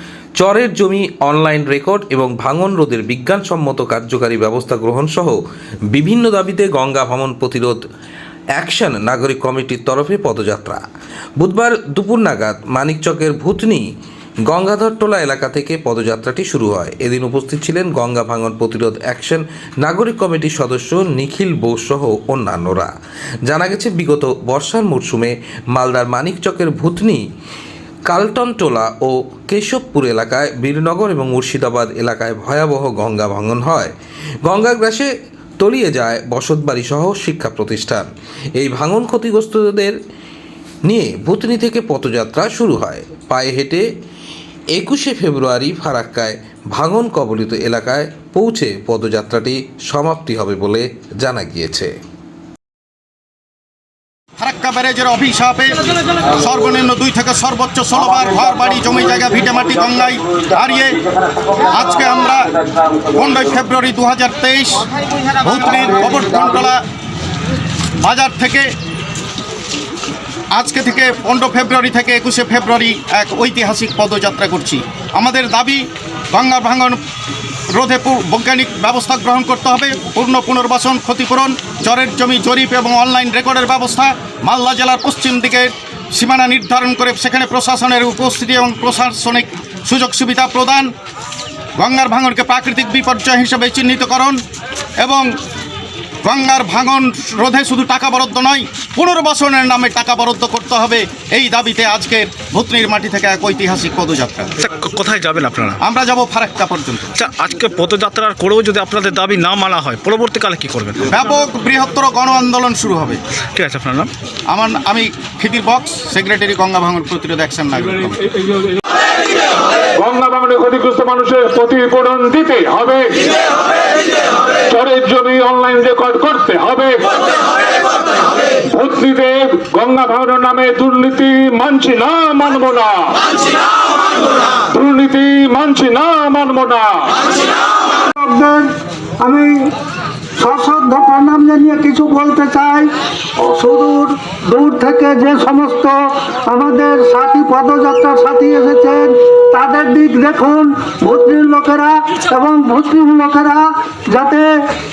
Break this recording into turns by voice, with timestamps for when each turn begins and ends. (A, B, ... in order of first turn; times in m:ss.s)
0:00.4-0:05.4 A
0:05.9-0:07.8 A
0:08.6-0:10.8 A
0:11.4-0:13.8 A
0:14.5-0:22.9 A
0:23.4-0:27.2 A
0:28.1-0:40.0 A
0:40.8-0:43.8 A
0:44.8-0:51.9 A
0:54.4-1:04.9 B
1:05.4-1:06.8 B
1:08.0-1:08.7 B
1:10.5-1:17.0 B
1:17.7-1:30.9 B
1:31.8-1:34.4 B
1:35.0-1:35.3 B
1:36.2-1:44.5 B
1:44.6-1:45.8 C
1:45.8-1:47.1 B
1:47.1-1:51.1 C
1:51.1-1:53.2 B
1:53.6-1:54.1 C
1:54.5-1:58.2 B
1:59.9-2:03.4 D
2:04.5-2:07.0 D
2:08.6-2:13.5 D
2:14.3-2:17.2 D
2:18.1-2:18.7 E
2:19.2-2:19.6 E
2:20.4-2:34.5 E